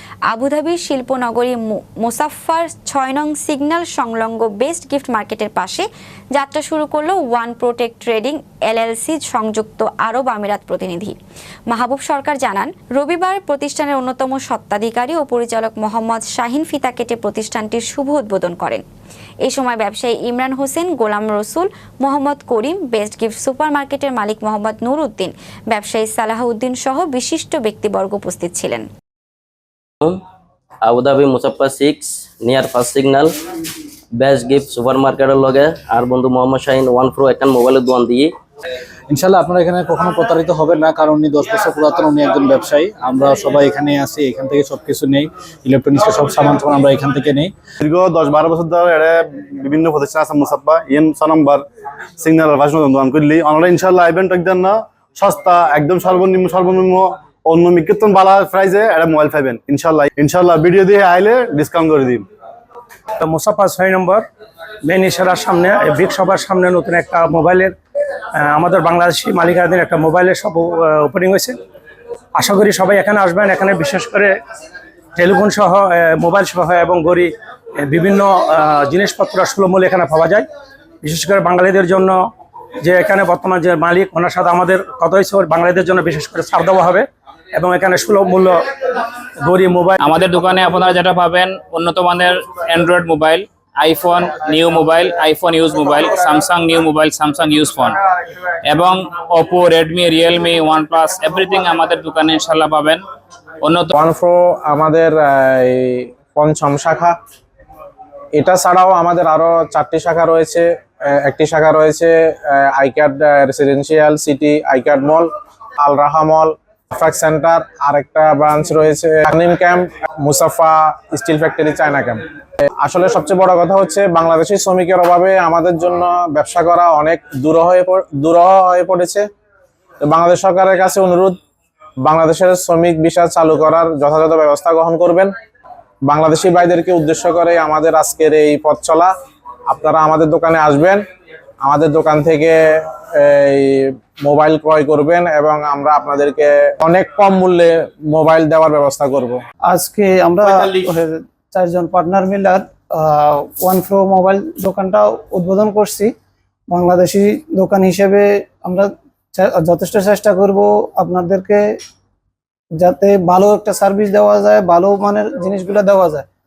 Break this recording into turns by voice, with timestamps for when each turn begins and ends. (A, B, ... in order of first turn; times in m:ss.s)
0:00.3-0:11.2 A
0:11.7-0:18.8 A
0:19.4-0:28.9 A
0:30.8-0:33.3 B
0:34.1-0:38.3 B
0:39.1-0:47.5 C
0:47.8-0:51.6 D
0:52.2-1:02.2 D
1:03.2-1:04.2 E
1:04.8-1:07.7 E
1:08.4-1:11.6 E
1:12.3-1:14.4 E
1:15.2-1:20.5 E
1:21.0-1:22.2 E
1:22.8-1:30.0 E
1:30.0-1:38.0 F
1:38.6-1:43.0 F
1:43.6-1:43.9 F
1:43.9-1:47.1 G
1:48.3-1:55.3 G
1:55.8-2:02.2 G
2:02.8-2:09.2 G
2:10.0-2:11.4 G
2:12.0-2:15.3 G
2:16.0-2:19.1 G
2:19.7-2:21.0 G
2:21.6-2:29.4 G
2:29.6-2:36.1 H
2:36.7-2:41.7 H
2:42.8-2:46.2 H